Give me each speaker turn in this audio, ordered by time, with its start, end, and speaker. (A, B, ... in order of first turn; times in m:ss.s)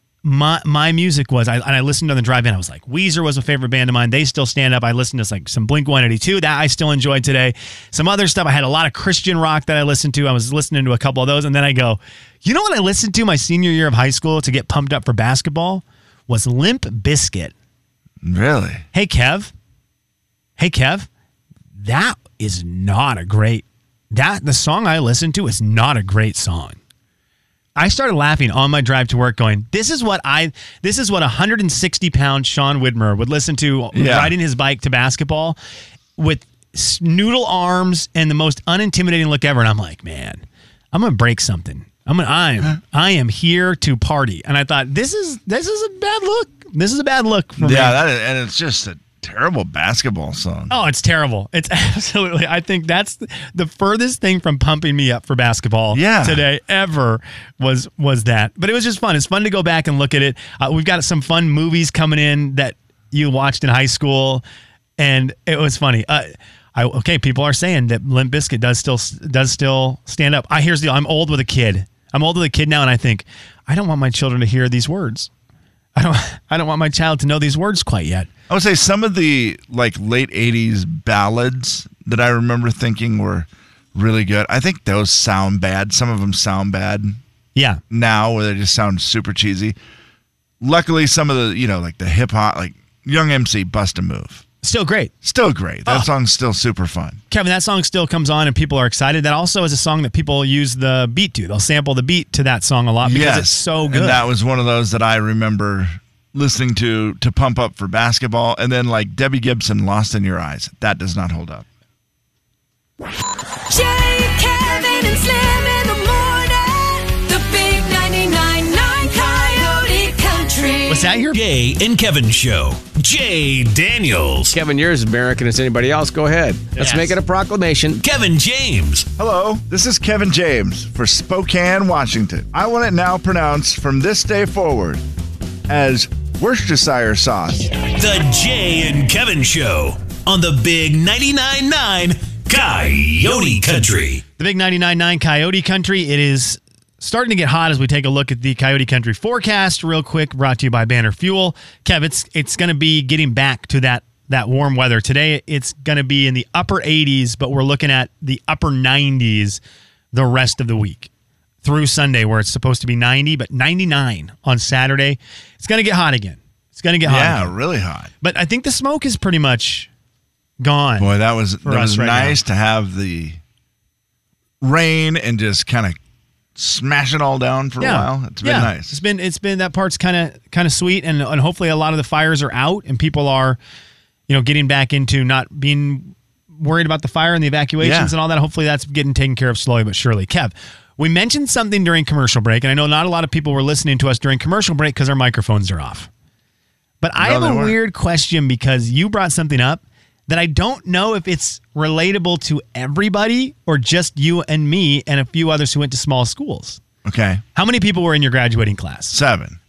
0:00.2-0:17.5 A
0:18.2-0:18.8 B
0:18.9-0:19.5 A
0:20.6-0:21.1 A
0:21.8-0:26.8 A
0:27.8-0:35.6 A
0:33.9-0:34.3 B
0:36.2-0:48.0 A
0:47.6-0:50.7 B
0:50.7-1:04.4 A
0:55.9-0:56.4 B
1:05.0-1:15.3 A
1:16.0-1:18.3 A
1:18.5-1:27.2 B
1:27.6-1:27.8 A
1:27.9-1:29.8 B
1:30.6-1:34.4 B
1:34.6-1:35.1 A
1:35.2-1:37.2 B
1:37.3-1:44.2 A
1:43.0-1:51.6 B
1:53.7-2:01.2 C
2:00.9-2:01.4 A
2:01.3-2:04.5 D
2:04.5-2:08.0 E
2:06.8-2:07.2 A
2:08.0-2:09.1 D
2:09.2-2:15.0 B
2:15.7-2:17.8 B
2:17.9-2:24.2 D
2:24.4-2:39.6 A
2:40.1-2:41.1 A
2:41.6-2:47.5 A
2:47.0-2:48.1 B
2:48.2-2:49.9 A
2:50.6-2:52.4 A
2:51.0-2:53.4 B
2:54.6-2:56.0 B
2:56.6-2:59.0 B
2:57.8-3:03.6 A
3:04.3-3:16.1 A
3:07.8-3:08.1 B
3:17.0-3:26.8 A
3:17.2-3:17.8 B
3:27.0-3:27.4 B
3:27.6-3:29.2 A
3:29.1-3:29.6 B